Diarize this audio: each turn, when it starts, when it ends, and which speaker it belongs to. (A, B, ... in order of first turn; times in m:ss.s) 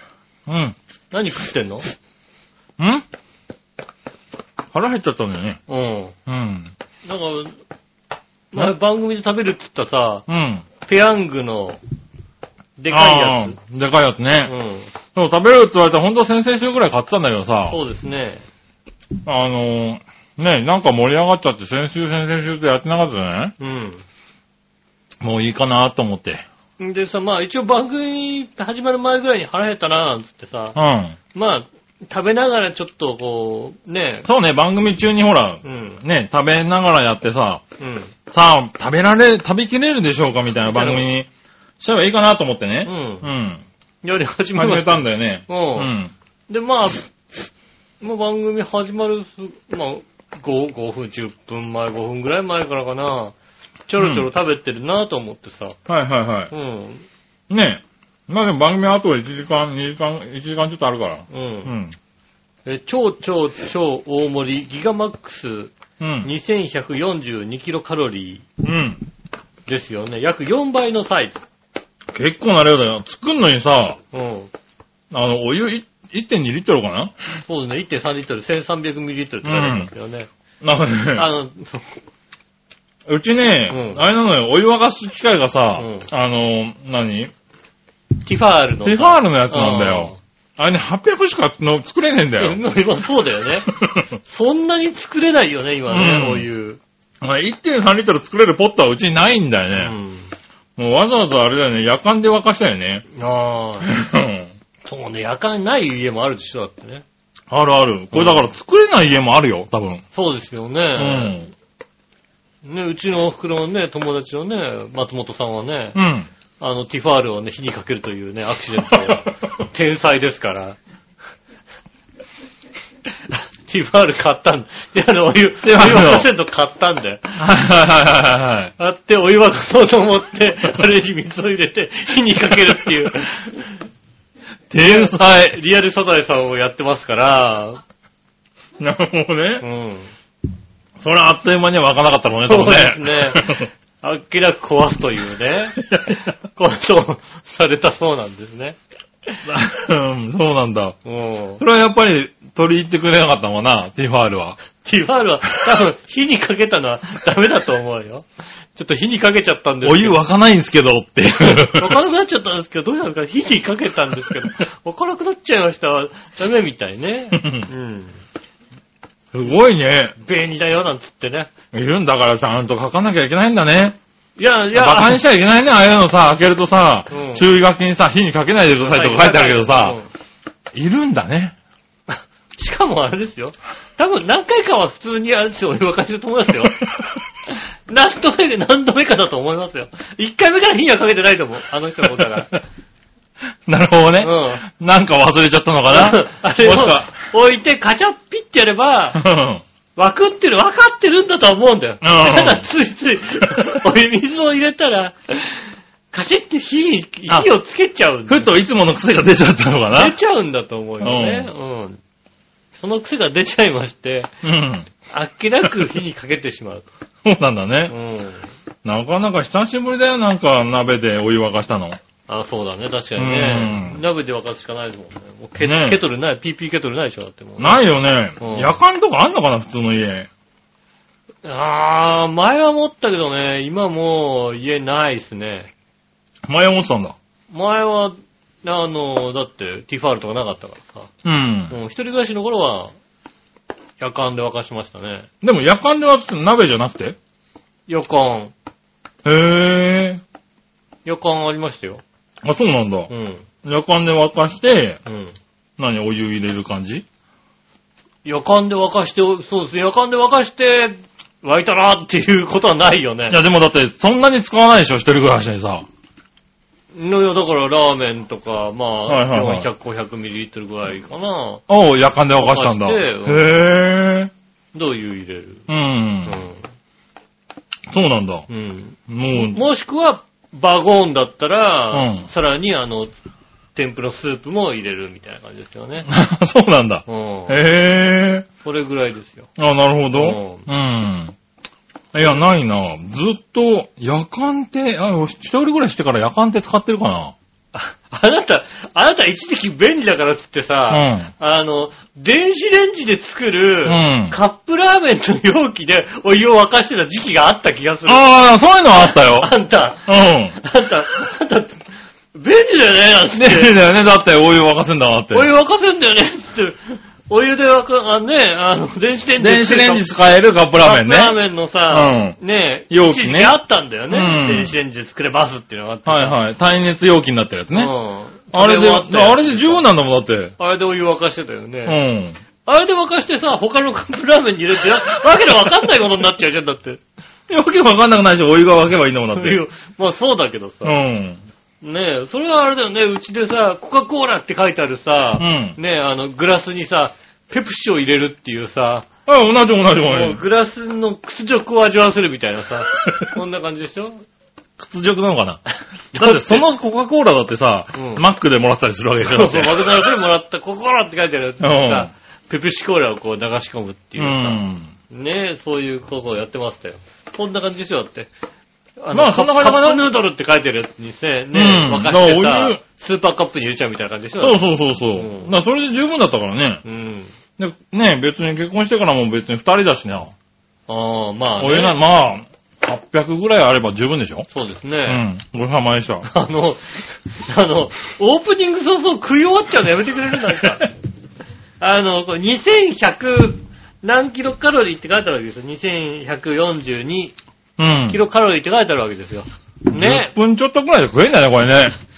0:00.5-0:00.8 A
0:01.1-0:01.9 B
0:02.8-0:03.0 A
0:04.7-0:05.6 A
0:05.7-0:06.2 B
0:06.3-0:06.7 A
0:07.0-0:07.5 B
0:08.5-0:10.3 B
0:10.3-0:10.7 A
0:10.8-0:11.8 B
0:12.8-0:13.6 B
0:12.9-0:14.5 A
0:14.5-0:14.9 B
0:15.2-0:17.8 A
0:17.7-0:18.4 B
0:19.2-0:23.5 A
0:23.6-0:24.0 B
0:25.2-0:26.4 A
0:26.8-0:30.8 B
0:30.8-0:31.2 A
0:31.3-0:34.3 B
0:34.3-0:37.6 A
0:35.6-0:36.0 B
0:37.8-0:38.1 B
0:38.3-0:41.3 A
0:40.6-0:41.1 B
0:41.8-0:43.6 A
0:42.8-0:43.3 B
0:44.0-0:45.9 B
0:44.6-0:46.1 A
0:46.5-0:47.1 B
0:48.0-0:53.4 B
0:53.9-0:55.8 B
0:54.0-0:54.3 A
0:55.9-0:56.5 A
0:56.5-0:57.1 B
0:57.5-1:02.0 A
1:01.3-1:01.7 B
1:02.7-1:08.4 B
1:06.0-1:06.3 A
1:08.6-1:09.0 A
1:09.7-1:11.4 B
1:12.1-1:14.0 A
1:14.1-1:14.5 B
1:15.1-1:17.1 A
1:17.5-1:20.3 B
1:19.4-1:19.9 A
1:20.6-1:21.3 A
1:21.2-1:21.9 B
1:23.1-1:27.3 A
1:23.7-1:24.0 B
1:25.8-1:26.1 B
1:28.2-1:30.2 B
1:28.8-1:32.6 A
1:32.4-1:33.7 B
1:33.7-1:34.0 A
1:34.2-1:36.8 B
1:35.9-1:36.5 A
1:37.2-1:39.9 A
1:39.8-1:40.3 B
1:40.8-1:43.0 A
1:43.1-1:43.9 B
1:43.8-1:44.5 A
1:44.9-1:47.0 B
1:47.5-1:50.0 A
1:48.1-1:48.4 B
1:50.1-1:51.4 B
1:51.0-1:51.5 A
1:52.6-1:56.0 B
1:56.0-1:56.3 A
1:56.6-2:00.8 B
2:03.3-2:07.4 B
2:05.6-2:06.3 A
2:07.4-2:08.7 A
2:08.8-2:13.8 B
2:14.7-2:15.6 A
2:14.7-2:17.8 B
2:18.8-2:19.6 A
2:19.6-2:20.1 B
2:21.0-2:23.7 A
2:22.5-2:25.8 B
2:25.8-2:26.2 A
2:26.5-2:29.4 B
2:29.4-2:31.0 A
2:31.0-2:31.6 B
2:31.6-2:34.6 A
2:34.8-2:40.2 B
2:39.8-2:42.0 A
2:41.4-2:48.2 B
2:47.3-2:47.7 A
2:49.3-2:50.2 A
2:50.2-2:51.5 B
2:51.7-2:54.0 A
2:54.4-2:55.2 B
2:54.7-3:00.0 A
2:57.1-2:57.4 B
2:58.8-3:00.1 B
3:00.7-3:01.5 A
3:02.1-3:06.8 B
3:07.5-3:12.6 B
3:13.7-3:17.1 A
3:14.2-3:14.6 B
3:15.9-3:19.2 B
3:19.1-3:19.6 A
3:20.0-3:28.5 B
3:22.0-3:22.6 A
3:23.5-3:23.8 A
3:28.3-3:30.2 A
3:29.9-3:32.0 B
3:31.0-3:31.5 A
3:32.8-3:34.3 B
3:34.4-3:34.9 A
3:35.1-3:36.9 B
3:37.2-3:37.9 A
3:37.9-3:38.5 B
3:38.8-3:42.0 A
3:42.3-3:47.9 B
3:43.2-3:44.0 A
3:45.6-3:46.0 A
3:47.6-3:50.3 A
3:48.4-3:48.8 B
3:51.4-3:55.7 B
3:56.5-3:57.2 A
3:57.5-4:01.1 B
4:01.2-4:01.8 A
4:01.7-4:02.9 B
4:04.0-4:05.3 B
4:05.4-4:07.2 A
4:07.9-4:08.5 B
4:09.2-4:10.2 A
4:11.0-4:12.0 B
4:12.4-4:13.1 A
4:13.1-4:13.5 B
4:13.6-4:15.0 A
4:15.1-4:15.4 B
4:15.8-4:17.0 A
4:18.2-4:23.4 B
4:23.3-4:25.9 A
4:26.9-4:31.6 B
4:29.1-4:29.7 A
4:31.7-4:34.3 A
4:32.4-4:33.6 B
4:34.7-4:35.6 B
4:35.7-4:36.4 A
4:36.2-4:36.7 B
4:37.9-4:38.5 A
4:38.5-4:43.1 B
4:39.1-4:39.6 A
4:41.9-4:42.3 A
4:43.8-4:46.1 B
4:46.1-4:48.5 A
4:47.1-4:47.6 B
4:48.6-4:49.5 B
4:49.6-4:51.4 A
4:50.1-4:50.7 B
4:52.1-4:57.4 A
4:57.7-5:08.3 B
5:00.9-5:01.3 A
5:03.9-5:04.4 A
5:08.1-5:09.5 A
5:08.9-5:13.8 B
5:10.1-5:10.6 A
5:13.4-5:15.5 A
5:15.3-5:20.1 B
5:19.4-5:22.4 A
5:20.8-5:26.4 B
5:22.9-5:23.6 A
5:24.1-5:24.8 A
5:26.1-5:27.9 A
5:27.7-5:29.8 B
5:28.5-5:30.5 A
5:30.6-5:32.0 B
5:31.9-5:32.4 A
5:32.7-5:37.0 B
5:37.5-5:39.6 A
5:39.4-5:41.0 B
5:40.8-5:41.4 A
5:41.8-5:49.1 B
5:45.4-5:45.8 A
5:49.3-5:50.4 A
5:50.0-5:54.2 B
5:54.8-5:55.6 A
5:56.1-5:56.7 B
5:56.2-6:00.1 A
5:57.9-5:58.2 B
5:59.2-6:08.3 B
6:01.6-6:02.1 A
6:04.2-6:04.9 A
6:09.0-6:14.6 B
6:09.1-6:10.0 A
6:11.5-6:12.8 A
6:14.4-6:16.8 A
6:15.1-6:15.5 B
6:16.8-6:17.3 B
6:17.6-6:20.3 A
6:20.9-6:22.0 B
6:21.6-6:24.5 A
6:24.5-6:25.3 B
6:25.1-6:26.3 A
6:26.2-6:30.9 B
6:31.8-6:37.4 B
6:37.8-6:38.2 A
6:38.1-6:40.3 B
6:39.9-6:42.0 A